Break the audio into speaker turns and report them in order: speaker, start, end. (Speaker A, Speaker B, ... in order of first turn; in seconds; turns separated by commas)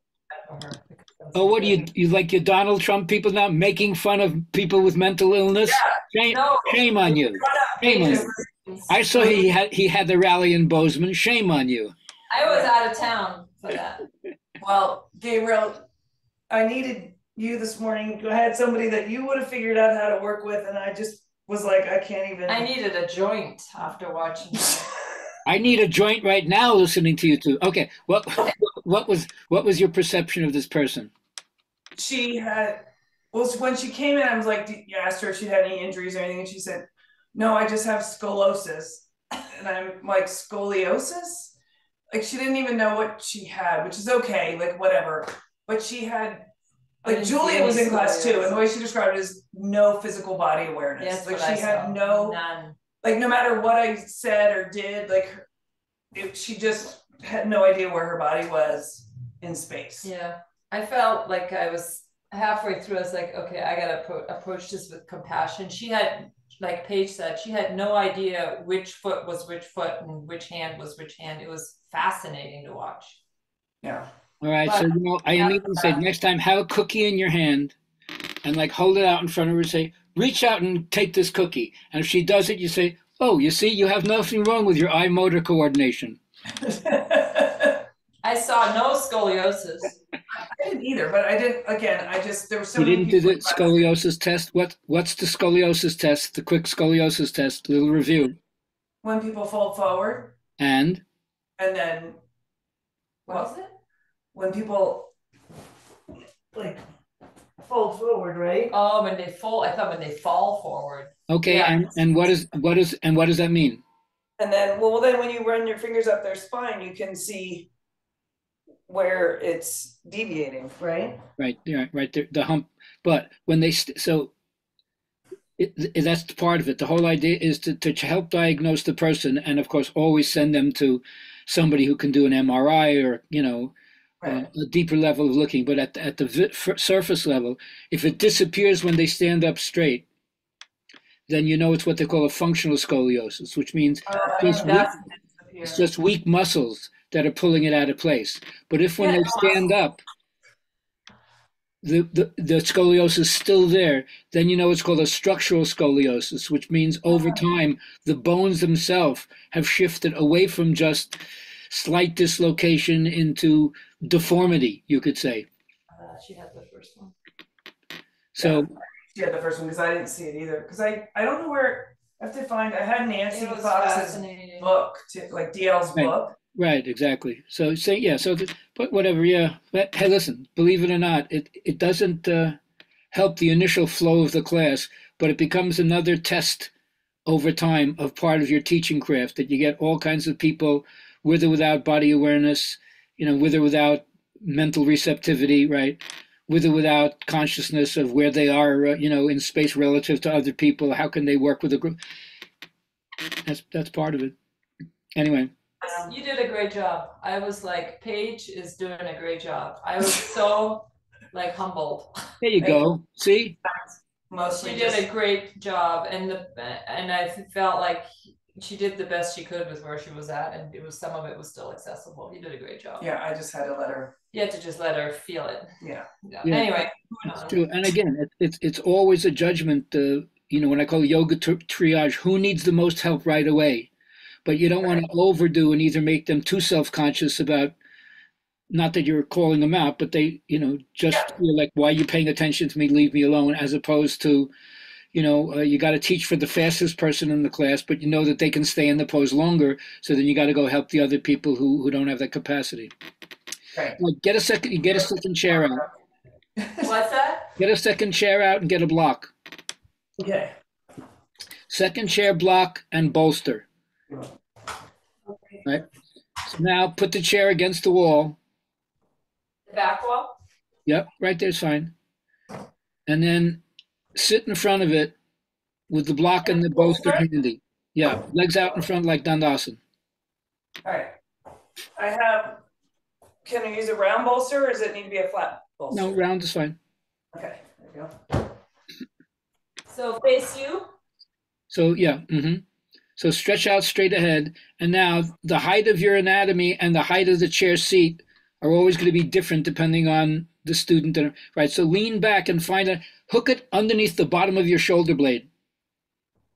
Speaker A: 0.3-1.8, Speaker B: 1.3-8.3, Speaker A: 6.3-8.9, Speaker C: 8.0-8.3, Speaker B: 8.9-11.9, Speaker A: 12.3-14.0, Speaker C: 12.4-12.7, Speaker C: 14.6-15.8, Speaker C: 16.5-22.7, Speaker A: 22.5-24.9, Speaker B: 25.4-31.1, Speaker C: 32.0-41.5, Speaker C: 42.1-46.5, Speaker C: 47.0-52.4, Speaker A: 47.0-48.6, Speaker A: 51.0-52.8, Speaker C: 53.0-55.5, Speaker C: 56.1-60.1, Speaker A: 60.0-73.2, Speaker C: 73.8-74.1, Speaker B: 74.4-77.7, Speaker A: 75.4-76.0, Speaker B: 78.4-86.2, Speaker C: 86.6-87.8, Speaker A: 88.2-90.0, Speaker C: 90.3-93.8, Speaker B: 92.8-98.4, Speaker C: 99.0-100.3, Speaker B: 100.6-101.0, Speaker C: 101.6-102.2, Speaker A: 103.2-103.7, Speaker C: 104.3-105.1, Speaker C: 106.5-106.8, Speaker C: 107.6-108.7, Speaker A: 108.7-112.0, Speaker B: 111.3-113.8, Speaker C: 114.4-117.7, Speaker C: 118.9-121.2, Speaker B: 121.4-124.3, Speaker B: 125.6-133.7, Speaker C: 134.2-134.5, Speaker B: 134.2-140.1, Speaker B: 141.3-144.9, Speaker C: 144.1-145.8, Speaker A: 144.3-145.0, Speaker B: 145.6-150.0, Speaker A: 149.0-149.7, Speaker B: 151.8-161.2, Speaker B: 161.7-165.5, Speaker A: 165.9-167.1, Speaker B: 168.3-168.7, Speaker C: 168.4-176.3, Speaker A: 173.3-174.7, Speaker B: 175.9-182.6, Speaker B: 183.1-186.7, Speaker B: 187.2-202.0, Speaker B: 203.4-204.3, Speaker B: 205.2-205.5, Speaker A: 205.8-212.1, Speaker C: 205.8-206.1, Speaker B: 212.4-213.6, Speaker C: 212.6-212.8, Speaker C: 214.3-215.1, Speaker A: 214.4-223.1, Speaker C: 223.0-224.1, Speaker A: 224.3-225.7, Speaker C: 225.8-226.1, Speaker A: 226.3-227.6, Speaker B: 226.4-233.9, Speaker B: 234.4-237.7, Speaker B: 238.7-244.5, Speaker B: 245.1-252.9, Speaker B: 254.0-255.8, Speaker C: 256.6-256.9, Speaker A: 256.8-257.5, Speaker B: 257.6-259.3, Speaker C: 260.2-260.5, Speaker B: 261.7-263.6, Speaker A: 265.3-265.6, Speaker B: 266.5-268.4, Speaker A: 269.7-270.3, Speaker B: 270.9-271.9, Speaker B: 273.1-273.6, Speaker B: 274.1-275.1, Speaker B: 275.9-279.8, Speaker C: 280.8-281.1, Speaker C: 281.9-282.6, Speaker C: 283.4-286.1, Speaker B: 285.9-286.8, Speaker C: 287.3-288.1, Speaker A: 289.9-290.9, Speaker B: 291.7-292.6, Speaker B: 293.2-305.5